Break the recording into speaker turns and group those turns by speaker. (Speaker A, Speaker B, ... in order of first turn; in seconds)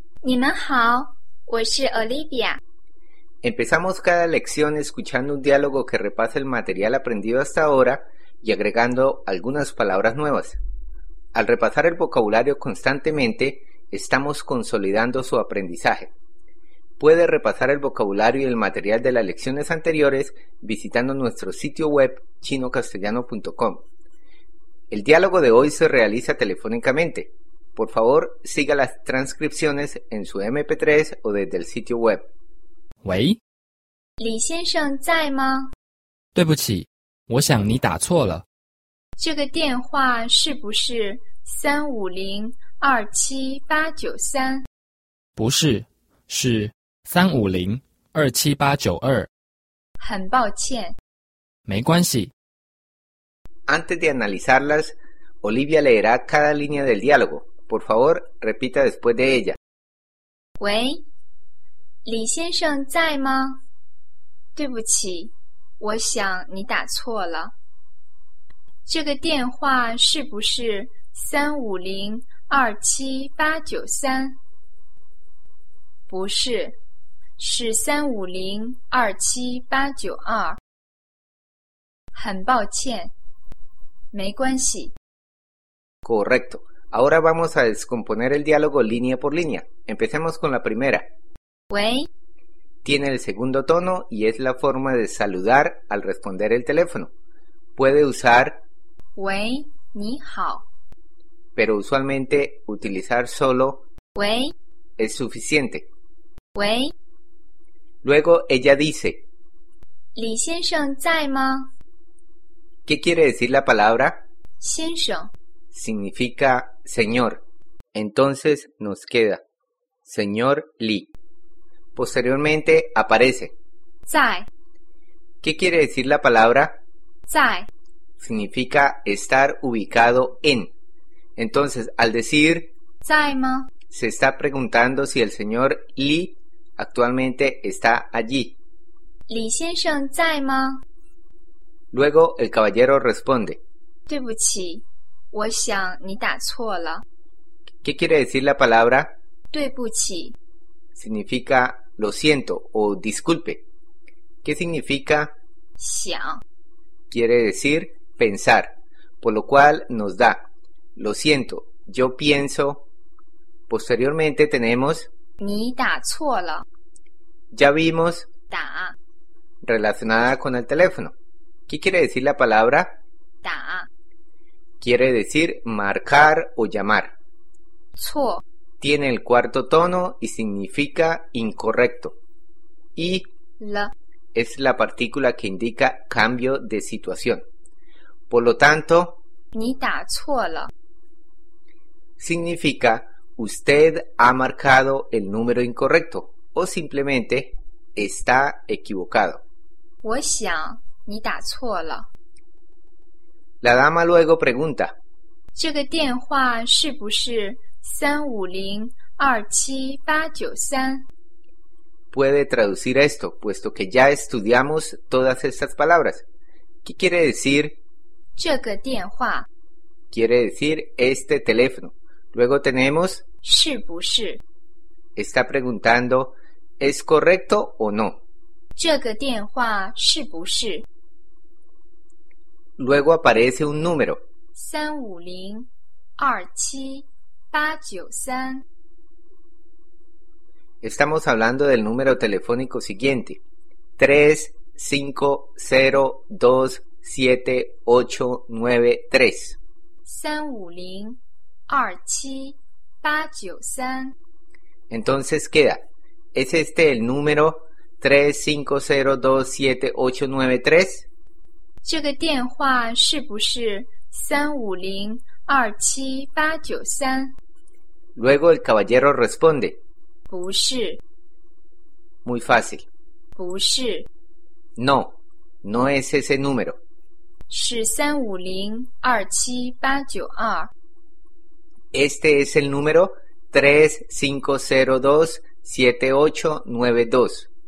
Speaker A: 0.2-2.6, 34.2-35.7, 39.2-44.7, 50.0-51.0, 60.6-61.0, 62.0-63.6, 64.5-67.5, 68.8-74.4, 76.1-76.8, 77.4-80.6, 82.1-83.1, 84.1-84.9, 91.7-92.1, 99.2-100.7, 104.1-104.5, 106.5-106.9, 110.1-111.7, 114.6-115.3, 124.0-124.5, 127.3-127.7, 133.0-133.7, 139.3-140.8, 144.1-147.0, 149.5-150.3, 155.8-156.4, 165.4-166.6, 168.5-168.9, 173.4-173.9, 177.9-178.4, 183.6-183.9, 189.5-190.7, 200.0-202.1, 205.5-211.1, 218.3-219.5, 223.4-224.4, 228.7-230.8, 234.5-238.6, 250.0-254.2, 261.8-267.3, 270.3-271.0, 273.3-274.1, 277.5-280.7
Speaker B: 3.4-10.6, 11.3-16.1, 17.0-23.8, 24.9-32.2, 53.7-59.6, 86.0-91.1, 92.8-97.1, 97.8-98.6, 101.5-103.8, 105.0-105.9, 108.0-109.2, 112.8-114.2, 115.7-117.4, 117.9-119.4, 120.0-121.1, 121.9-123.5, 125.4-126.8, 128.2-130.7, 131.3-132.7, 133.9-138.6, 141.9-143.6, 147.8-149.1, 150.9-153.6, 154.4-155.3, 157.1-162.8, 163.7-165.1, 167.5-168.3, 169.6-171.1, 171.7-173.0, 174.8-177.1, 178.8-182.2, 182.9-183.2, 184.3-187.4, 188.3-189.2, 192.2-199.4, 203.6-205.0, 212.1-216.2, 216.8-217.8, 220.1-223.2, 225.2-228.2, 232.8-234.2, 240.8-243.4, 244.0-249.6, 254.9-255.8, 256.3-261.1, 268.1-269.8, 272.2-272.9, 274.8-276.8, 281.9-287.5
Speaker C: 33.0-33.4, 36.3-38.4, 45.4-49.3, 51.6-52.3